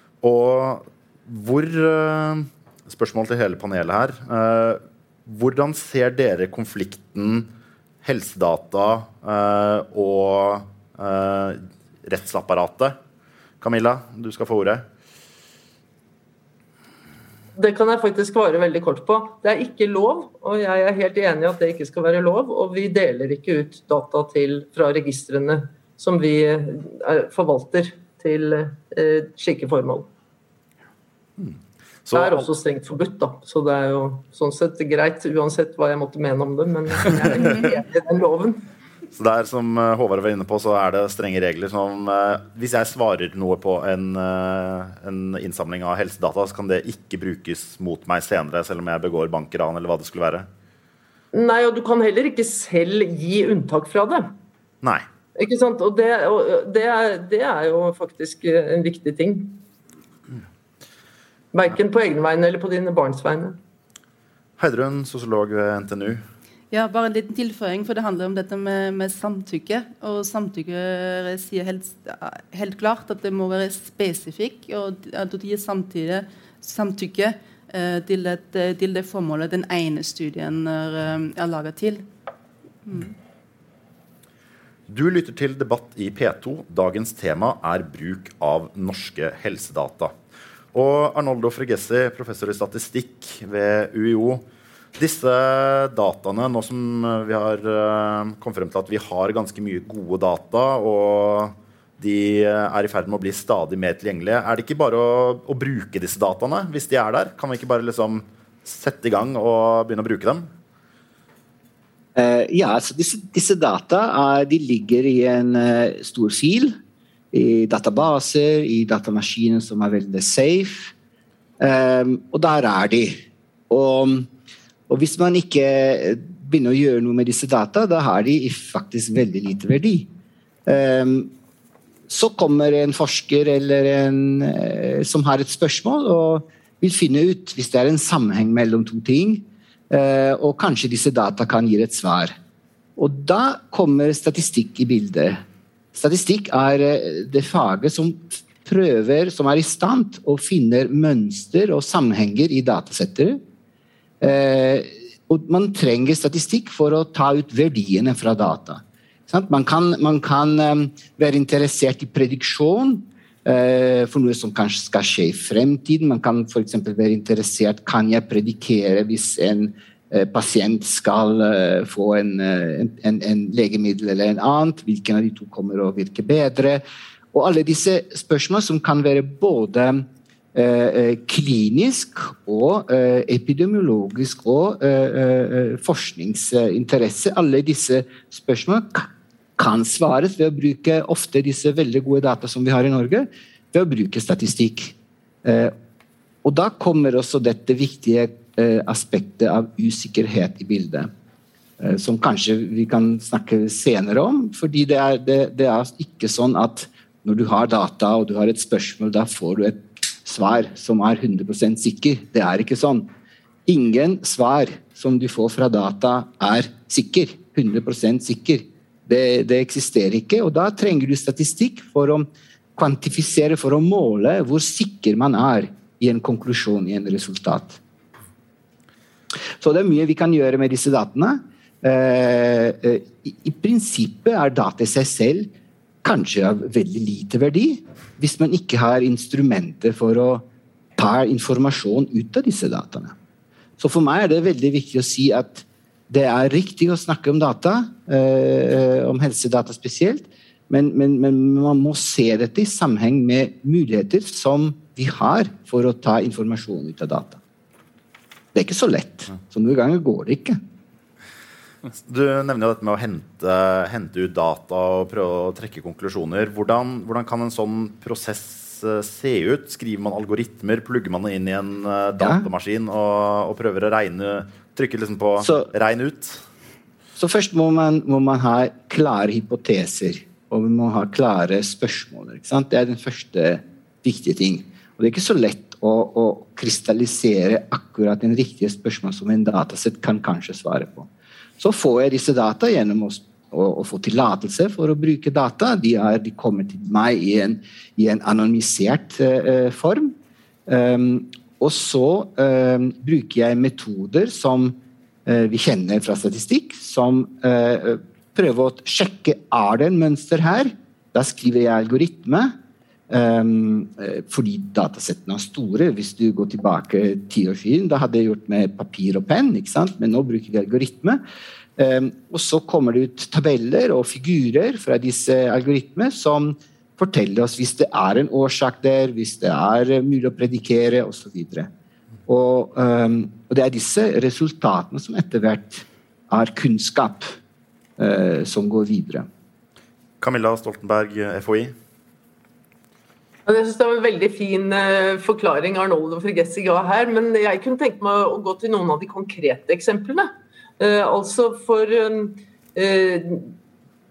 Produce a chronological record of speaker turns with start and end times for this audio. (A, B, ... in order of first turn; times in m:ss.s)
0:00.2-0:07.5 A
0:08.0-0:13.0 A
0:13.6-0:14.8 A
0:17.6-0:30.1 B
0:31.4-0:32.5 A
0:32.1-0:38.6 B
0:39.1-0:50.5 A
0:51.3-0:54.3 B
0:55.4-0:59.6 B
1:01.5-1:03.6 B
1:04.6-1:06.2 A
1:06.7-1:22.0 C
1:24.9-1:30.1 A
1:30.7-1:34.4 A
1:35.0-1:50.5 A
1:52.2-1:56.8 D
1:57.3-2:00.9 D
2:01.6-2:03.2 D
2:03.7-2:04.3 D
2:04.9-2:10.1 D
2:10.6-2:11.3 D
2:12.1-2:22.4 D
2:23.0-2:25.4 D
2:25.9-2:33.4 D
2:34.2-3:15.7 D
3:16.4-3:21.1 D
3:21.8-3:33.1 D
3:33.6-3:47.8 D
3:49.6-3:55.5 D
3:56.0-4:00.4 D
4:01.0-4:03.1 D
4:03.8-4:17.4 D
4:18.5-4:20.6 D
4:22.1-4:36.4 A
4:35.4-4:35.7 D
4:37.2-4:51.1 D
4:51.6-5:00.1 D
5:00.7-5:12.5 D
5:13.1-5:21.2 D
5:21.8-5:31.7 D
5:32.3-5:37.3 D
5:38.0-5:39.3 D
5:40.2-5:41.7 A
5:43.4-5:53.5 B